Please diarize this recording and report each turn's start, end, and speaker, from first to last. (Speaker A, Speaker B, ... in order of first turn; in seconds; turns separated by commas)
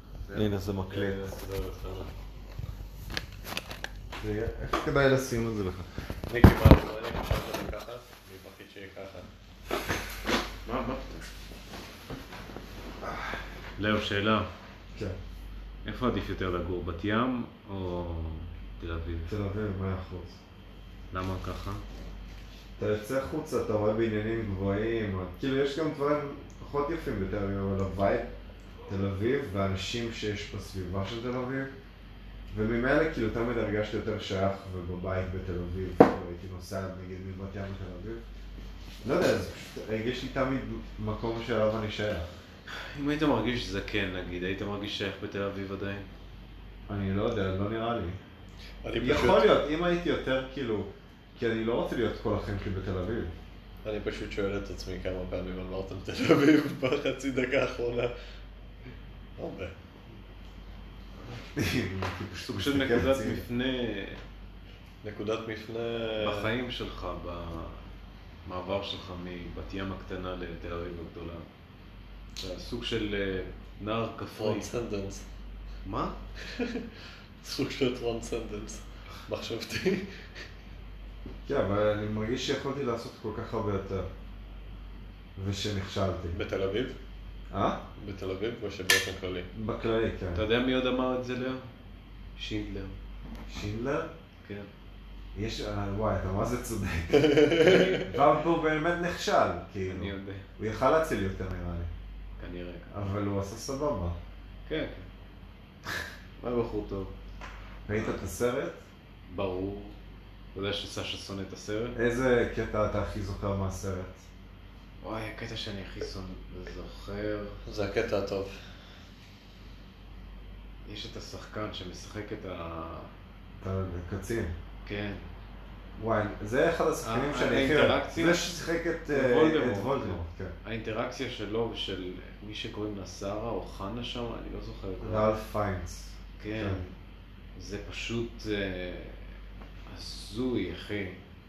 Speaker A: 0.3-1.4, Speaker B: 0.9-2.1, Speaker A: 4.2-5.9, Speaker B: 6.3-9.3, Speaker C: 10.6-11.2, Speaker C: 13.8-14.5, Speaker C: 15.8-19.3, Speaker A: 19.3-20.4, Speaker C: 21.1-21.8, Speaker A: 22.8-28.3, Speaker A: 28.9-31.7, Speaker A: 32.5-38.2, Speaker A: 39.0-42.3, Speaker C: 42.7-46.1, Speaker A: 46.9-48.2, Speaker B: 48.8-49.5, Speaker A: 49.0-53.3, Speaker B: 53.8-58.1, Speaker B: 59.4-59.8, Speaker A: 61.5-63.4, Speaker C: 62.4-64.2, Speaker B: 65.0-66.5, Speaker C: 66.2-67.8, Speaker C: 68.4-71.5, Speaker C: 72.4-74.7, Speaker B: 74.4-75.2, Speaker C: 75.8-76.2, Speaker B: 76.4-76.9, Speaker B: 77.4-80.2, Speaker A: 81.5-84.1, Speaker A: 85.3-86.4, Speaker B: 86.3-87.0, Speaker A: 87.5-87.8, Speaker B: 88.0-89.5, Speaker A: 89.5-90.4, Speaker C: 90.3-91.7, Speaker C: 92.3-93.0, Speaker A: 93.5-94.1, Speaker C: 94.4-94.7, Speaker A: 95.3-101.9, Speaker B: 97.3-97.9, Speaker C: 97.6-98.1, Speaker C: 99.9-100.5, Speaker C: 102.4-103.1, Speaker A: 102.9-104.2, Speaker C: 104.7-105.1, Speaker C: 106.4-107.1, Speaker A: 107.8-108.8, Speaker C: 107.9-108.2, Speaker C: 109.3-110.0, Speaker C: 110.5-112.0, Speaker A: 111.9-114.2, Speaker C: 115.0-117.6, Speaker B: 117.7-118.5, Speaker C: 120.8-123.1, Speaker A: 123.6-124.5, Speaker C: 124.8-125.3, Speaker A: 126.0-130.5, Speaker C: 127.0-128.4, Speaker C: 129.1-135.3, Speaker A: 135.0-136.8, Speaker C: 136.4-136.9, Speaker C: 137.6-139.3, Speaker C: 139.9-141.2